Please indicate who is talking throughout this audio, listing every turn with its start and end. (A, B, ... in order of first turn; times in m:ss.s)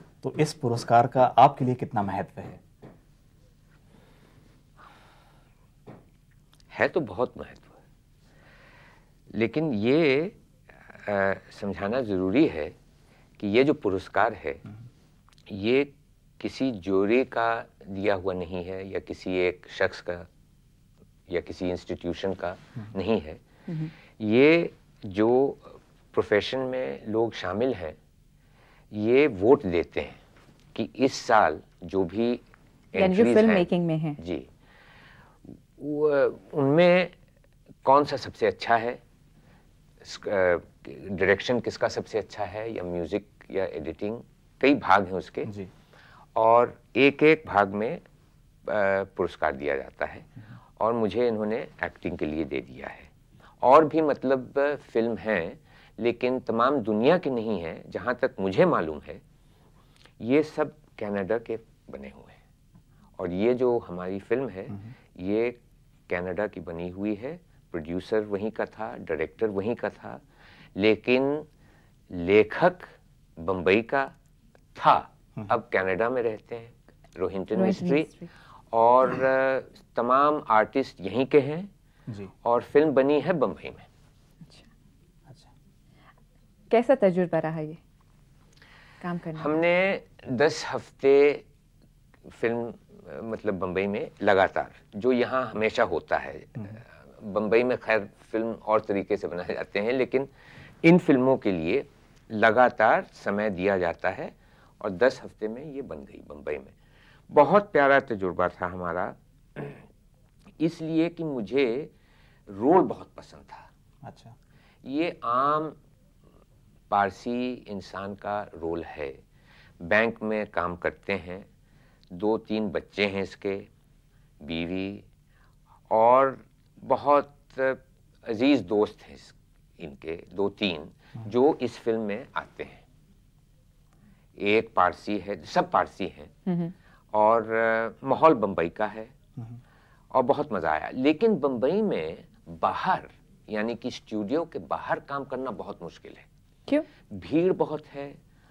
0:00.2-0:02.6 A
0:06.7-0:07.7 B
0:09.3-0:10.4 B
0:10.9-0:12.7 B
0:13.4-0:14.6 B
0:15.5-0:20.3 B
0:21.3-0:23.4 B
0:24.0-0:28.0 B
0:28.9-0:30.2 B
0:30.7-0:32.4 B
0:32.9-0:34.5 B
0:33.0-0:34.2 C
0:35.5-0:37.1 B
0:37.8-0:39.0 B
0:40.0-0:45.5 B
0:46.4-0:48.0 B
0:48.6-0:53.1 B
0:53.6-0:59.2 B
1:00.2-1:02.4 B
1:03.2-1:05.6 B
1:06.1-1:10.2 B
1:10.8-1:11.5 B
1:12.1-1:14.1 B
1:14.8-1:18.1 B
1:17.5-1:18.3 C
1:18.7-1:21.7 B
1:22.4-1:23.9 B
1:26.7-1:27.8 C
1:29.0-1:29.6 C
1:29.4-1:31.4 B
1:32.3-1:40.3 B
1:40.8-1:46.7 B
1:47.3-1:49.9 B
1:50.6-1:51.9 B
1:52.5-1:53.7 B
1:54.0-1:54.4 A
1:54.8-1:55.8 B
1:56.9-1:59.2 B
1:59.8-2:01.5 B
2:02.1-2:03.7 B
2:04.4-2:05.0 B
2:05.9-2:12.8 B
2:14.4-2:16.3 B
2:16.5-2:16.7 C
2:17.1-2:19.1 B
2:20.1-2:26.3 B
2:27.1-2:28.2 B